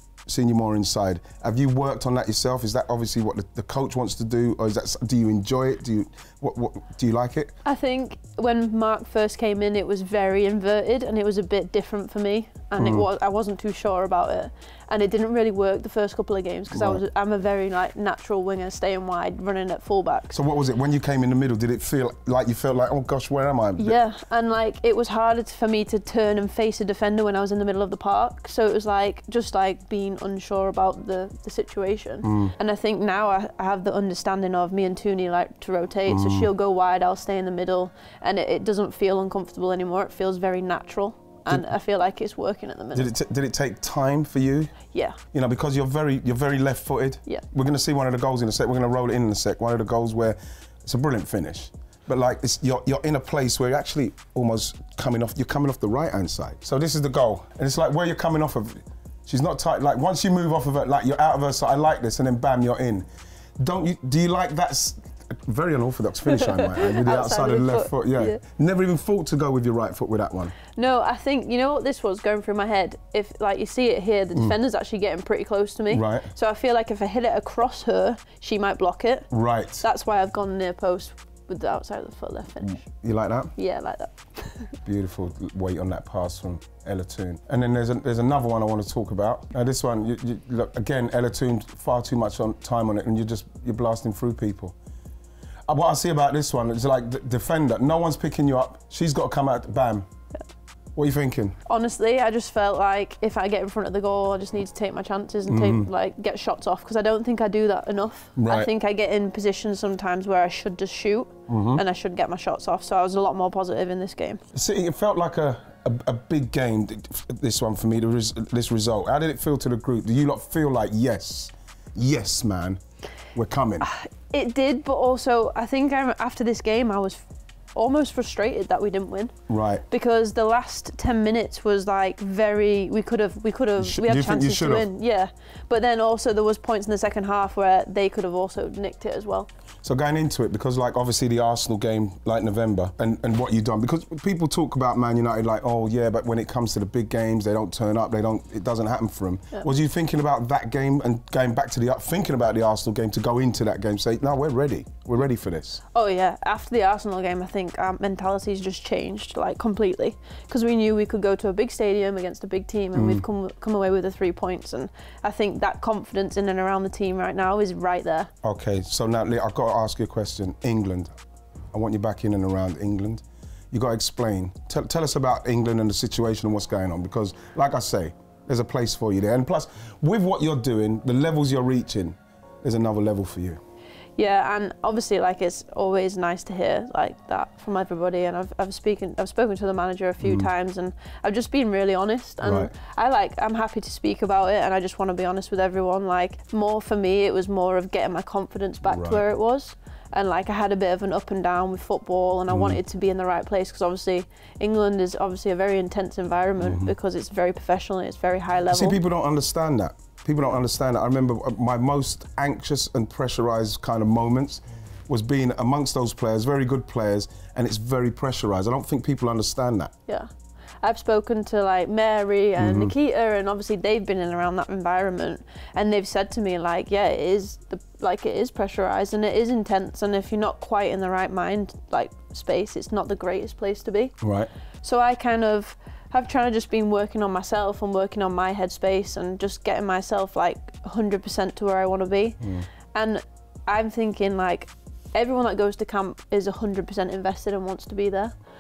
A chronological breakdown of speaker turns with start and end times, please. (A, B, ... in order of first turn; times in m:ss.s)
0:00.3-0:07.6 A
0:07.6-0:20.4 B
0:12.8-0:13.1 A
0:16.7-0:17.0 A
0:20.3-0:24.0 A
0:23.8-0:43.1 B
0:32.2-0:32.6 A
0:36.1-0:36.5 A
0:42.9-0:44.8 A
0:44.9-0:45.2 B
0:45.3-1:03.1 A
1:03.6-1:10.6 A
1:06.3-1:08.4 B
1:10.7-1:19.3 B
1:15.9-1:16.3 A
1:19.3-1:19.8 A
1:19.8-1:22.9 B
1:22.7-1:23.5 A
1:23.6-1:24.8 B
1:24.9-1:34.8 A
1:35.7-1:40.1 A
1:41.0-1:41.6 A
1:41.7-1:54.4 B
1:45.5-1:45.9 A
1:48.4-1:48.7 A
1:51.5-1:51.8 A
1:54.5-2:02.8 A
2:03.3-2:03.9 A
2:03.8-2:07.2 B
2:07.8-2:09.4 B
2:09.5-2:09.8 A
2:09.9-2:19.5 B
2:13.8-2:14.9 A
2:19.8-2:35.8 A
2:35.9-2:48.3 B
2:43.0-2:43.2 A
2:48.4-2:51.1 A
2:51.7-3:03.6 A
3:04.2-3:29.0 B
3:10.2-3:10.5 A
3:12.4-3:12.7 A
3:18.8-3:19.2 A
3:22.5-3:22.8 A
3:26.6-3:26.9 A
3:28.7-3:39.9 A
3:40.8-3:54.1 B
3:42.6-3:43.0 A
3:54.2-3:54.5 A
3:54.8-4:02.4 B
4:02.4-4:02.7 A
4:02.9-4:08.3 B